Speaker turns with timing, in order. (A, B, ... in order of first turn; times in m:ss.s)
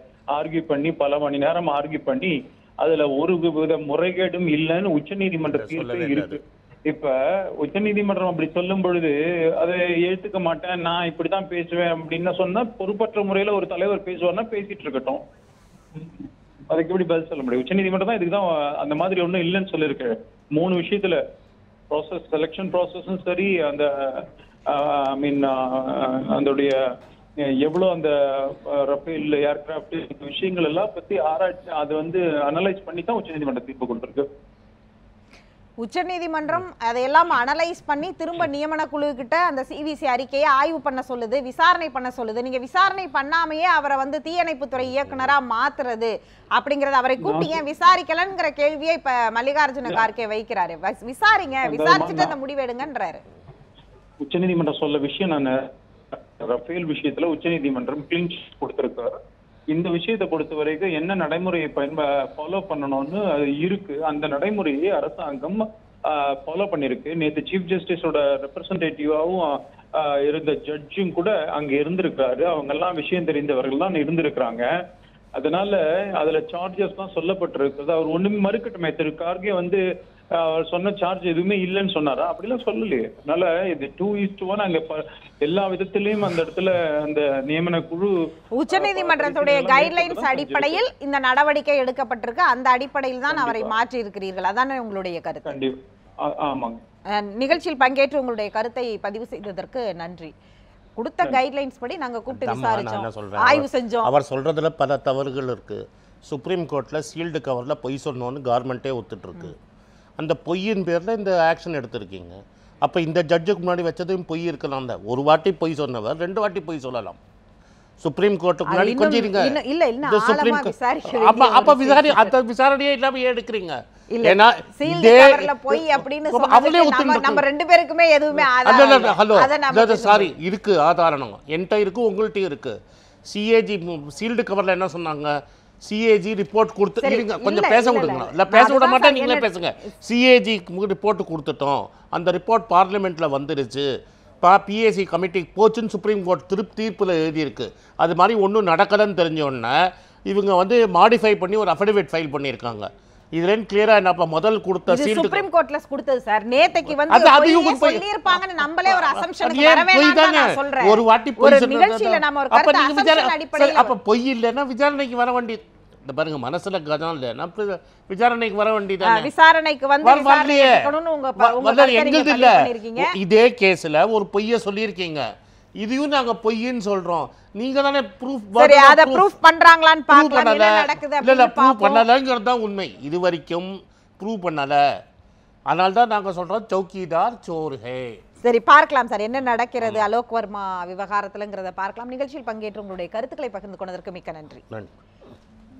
0:00.3-0:15.2 A
0:05.4-0:06.4 B
0:16.7-0:21.2 A
0:21.9-0:26.8 A
0:27.4-0:34.3 A
0:35.8-0:53.2 C
0:47.2-0:47.6 A
0:51.6-0:52.4 A
0:54.2-0:55.7 A
0:56.4-0:59.2 A
0:59.7-1:14.6 A
1:15.3-1:19.8 A
1:20.3-1:28.1 A
1:28.5-1:35.5 C
1:28.7-1:30.8 A
1:33.3-1:33.8 A
1:35.4-1:36.8 A
1:37.1-1:40.3 C
1:41.0-1:44.1 C
1:42.3-1:49.6 B
1:50.2-1:57.2 B
1:58.0-2:07.4 B
1:58.7-2:02.3 C
2:04.1-2:10.3 C
2:08.3-2:12.8 B
2:13.3-2:23.9 B
2:17.0-2:19.5 C
2:24.4-2:35.4 B
2:34.9-2:43.9 C
2:37.1-2:49.3 B
2:49.0-2:53.2 C
2:50.0-2:55.3 B
2:55.8-2:59.4 B
2:58.6-3:02.0 C
3:00.1-3:04.8 B
3:05.7-3:08.2 B
3:08.4-3:14.6 C
3:09.8-3:10.0 B